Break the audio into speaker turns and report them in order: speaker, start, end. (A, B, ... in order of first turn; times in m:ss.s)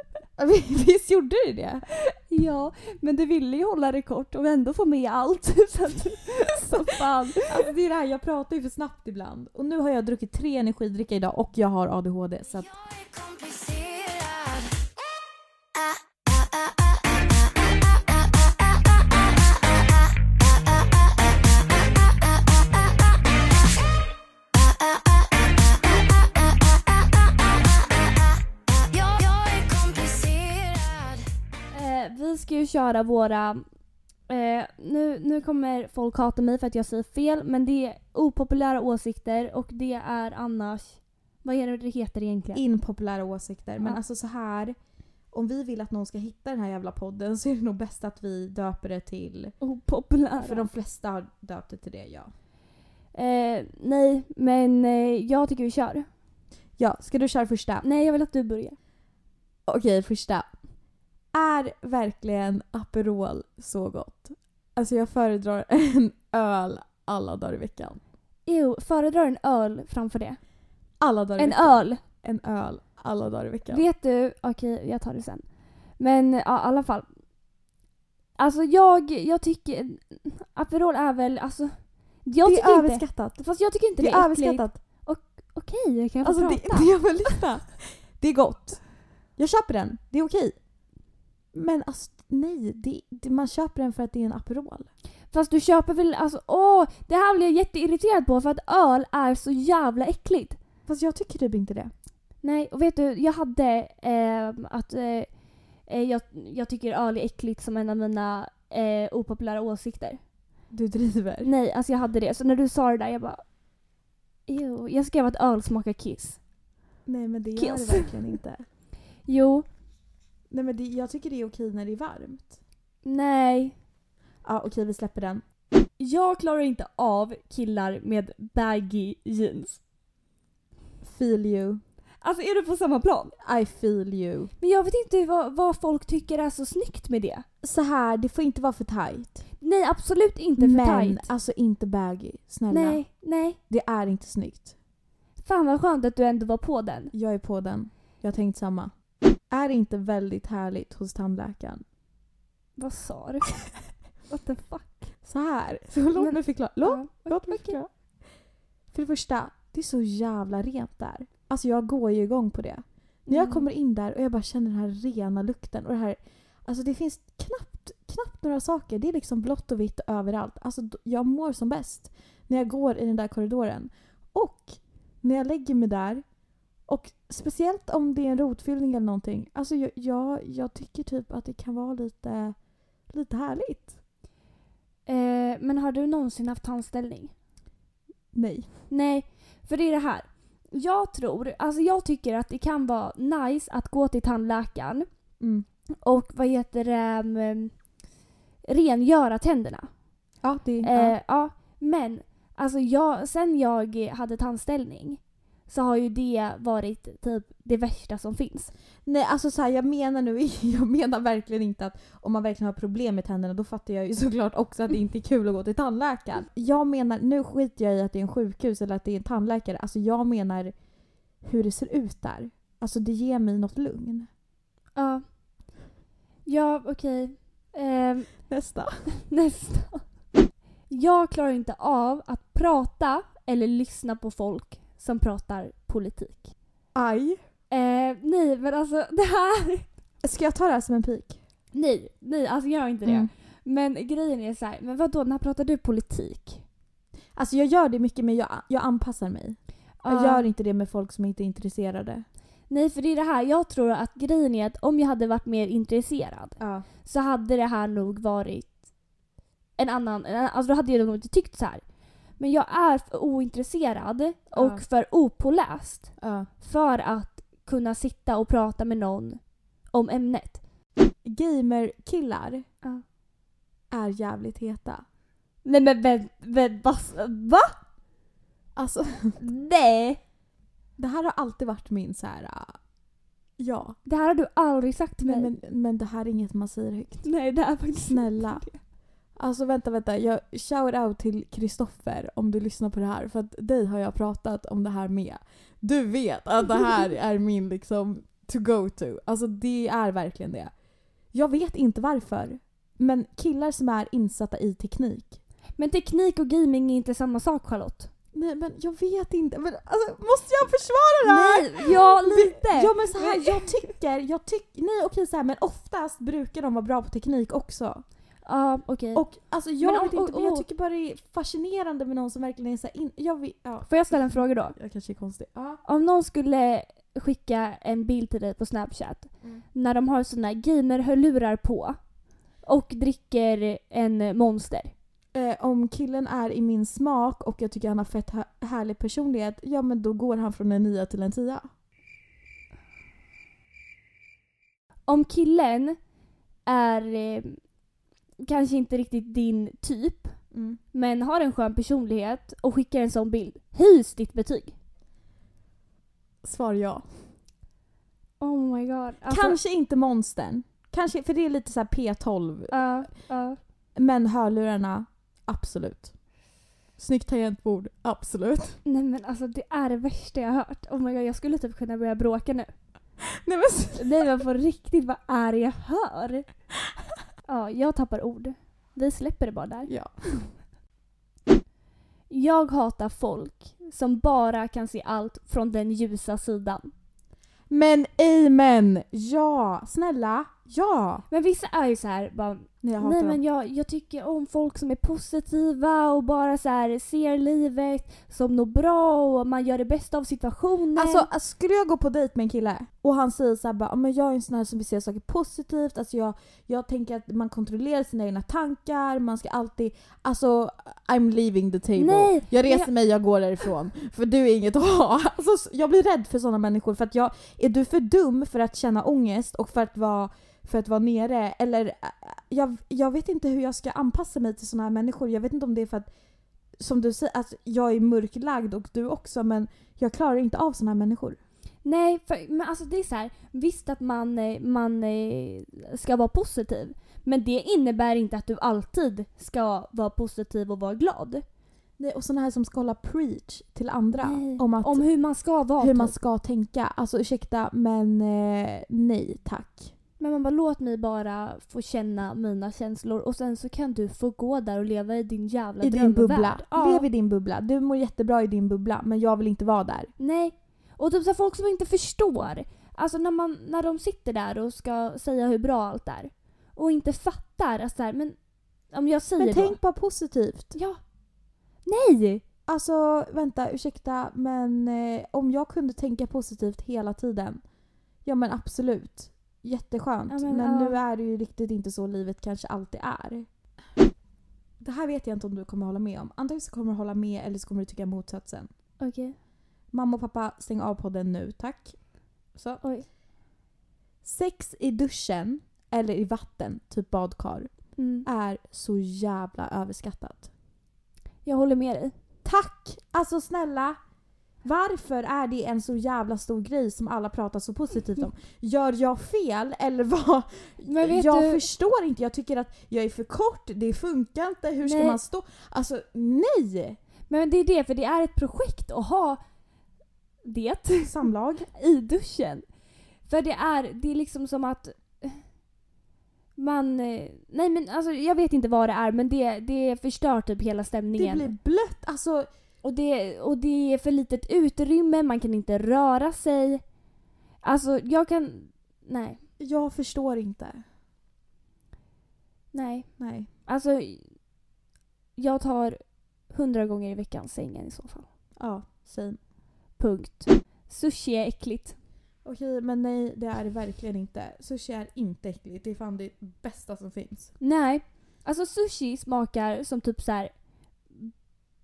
0:00.4-0:01.8 A
0:02.1-0:07.7 B
0:06.6-0:12.7 A
0:12.5-0:14.8 C
0:16.3-0:17.5 C
0:19.1-0:20.8 C
0:24.6-0:31.2 C
0:31.7-0:33.6 B
0:34.3-0:42.6 B
0:42.5-0:44.8 A
0:45.3-0:49.6 A
0:49.6-0:50.7 B
0:50.4-0:52.3 A
0:53.2-0:56.1 B
0:56.8-0:57.8 A
0:57.8-0:58.8 B
0:59.7-1:00.5 A
1:01.3-1:08.0 A
1:08.5-1:10.4 B
1:11.0-1:13.8 A
1:11.4-1:12.0 B
1:13.7-1:15.4 B
1:16.0-1:17.1 B
1:18.4-1:27.4 B
1:22.4-1:23.4 A
1:24.0-1:24.8 A
1:26.2-1:28.8 A
1:29.4-1:30.6 A
1:31.5-1:34.9 A
1:35.3-1:40.6 B
1:40.9-1:41.9 A
1:42.4-1:45.3 B
1:45.9-1:50.2 B
1:50.7-1:51.5 A
1:51.4-1:53.4 B
1:54.5-1:56.4 B
1:57.1-1:58.6 A
1:57.6-1:58.1 B
1:59.3-1:59.7 B
2:00.5-2:02.6 A
2:03.0-2:03.8 B
2:04.4-2:05.4 A
2:06.0-2:09.8 B
2:11.0-2:11.8 A
2:12.2-2:13.3 B
2:13.4-2:14.5 A
2:14.6-2:17.4 B
2:17.6-2:19.4 A
2:19.6-2:21.3 B
2:20.6-2:23.0 A
2:22.7-2:23.6 B
2:23.7-2:24.7 A
2:25.4-2:27.1 B
2:27.1-2:28.9 A
2:29.5-2:31.8 A
2:32.8-2:33.6 B
2:34.3-2:35.1 B
2:35.2-2:37.9 A
2:36.2-2:37.8 B
2:38.9-2:56.2 A
2:43.3-2:43.7 B
2:56.9-3:02.6 A
3:03.1-3:03.9 A
3:05.1-3:07.3 B
3:08.3-3:08.7 A
3:08.9-3:15.1 B
3:15.4-3:15.6 A
3:16.0-3:17.7 B
3:18.7-3:19.9 B
3:20.4-3:21.2 A
3:20.8-3:28.7 B
3:29.1-3:40.7 A
3:41.4-3:44.3 A
3:45.0-3:45.2 B
3:46.4-3:48.3 B
3:48.5-3:49.1 A
3:49.3-3:50.0 B
3:50.9-3:56.5 B
3:56.9-3:57.4 A
3:57.7-3:59.9 B
4:00.2-4:01.4 A
4:01.7-4:06.6 B
4:03.0-4:03.3 A
4:07.4-4:12.2 A
4:10.0-4:10.4 B
4:12.7-4:18.8 B
4:16.6-4:16.9 A
4:19.8-4:21.8 B
4:22.4-4:29.4 B
4:24.5-4:24.8 A
4:26.2-4:26.5 A
4:29.9-4:30.6 B
4:31.2-4:32.6 A
4:33.9-4:35.0 A
4:35.6-4:37.8 B
4:38.8-4:39.4 A
4:39.4-4:40.2 B
4:41.0-4:42.8 A
4:43.6-4:44.0 A
4:44.1-4:45.5 B
4:45.2-4:47.3 A
4:47.2-4:48.8 B
4:48.0-4:48.6 A
4:49.4-5:00.7 A
5:01.3-5:05.4 A
5:05.8-5:08.1 B
5:08.3-5:18.0 A
5:11.2-5:13.9 B
5:18.4-5:19.3 B
5:19.2-5:24.2 A
5:19.8-5:20.6 B
5:23.9-5:24.8 B
5:24.8-5:25.8 A
5:25.8-5:32.0 B
5:32.6-5:34.9 B
5:35.3-5:41.7 A
5:45.1-5:46.0 B
5:46.7-5:47.6 B
5:48.4-5:50.4 B
5:50.5-5:50.8 A
5:50.9-5:54.7 B
5:56.4-5:57.1 A
5:58.4-5:59.6 B
5:59.2-6:02.7 A
6:02.7-6:03.6 B
6:04.0-6:06.1 A
6:07.0-6:08.8 A
6:08.8-6:12.7 B
6:13.2-6:14.2 A
6:14.0-6:16.5 B
6:17.5-6:19.9 B
6:19.9-6:20.5 A
6:22.3-6:26.9 B
6:27.7-6:31.2 A
6:31.3-6:41.3 B
6:32.8-6:33.4 A
6:41.0-7:06.1 A
6:52.0-6:52.9 B
7:06.8-7:11.4 A
7:11.8-7:21.4 B
7:22.0-7:25.0 A
7:24.2-7:26.1 B
7:25.8-7:29.9 A
7:30.2-7:37.0 B
7:35.8-7:40.1 A
7:40.2-7:48.4 B
7:48.9-7:49.8 B
7:49.4-7:50.8 A
7:51.8-7:52.4 B
7:52.7-7:57.6 A
7:58.2-8:03.5 A
8:00.3-8:01.0 B
8:04.8-8:08.7 A
8:09.0-8:09.4 B
8:09.9-8:12.0 A
8:12.6-8:12.8 A
8:14.2-8:17.7 A
8:18.0-8:18.3 B
8:18.2-8:20.5 A
8:21.4-8:22.1 B
8:22.4-8:24.0 A
8:24.6-8:37.0 A
8:30.8-8:31.7 B
8:34.8-8:35.2 B
8:37.3-8:39.4 B
8:40.4-8:42.6 B
8:41.0-8:41.7 A
8:43.3-8:45.4 B
8:46.6-8:51.5 B
8:51.1-8:52.5 A
8:52.8-8:56.8 B
8:57.6-8:59.4 B
8:59.6-9:00.8 A
9:02.7-9:03.1 B
9:03.2-9:03.5 A
9:03.7-9:04.2 B
9:05.4-9:06.0 B
9:06.5-9:08.3 B
9:08.6-9:09.4 A
9:10.0-9:12.0 B
9:12.4-9:17.5 A
9:17.6-9:20.5 B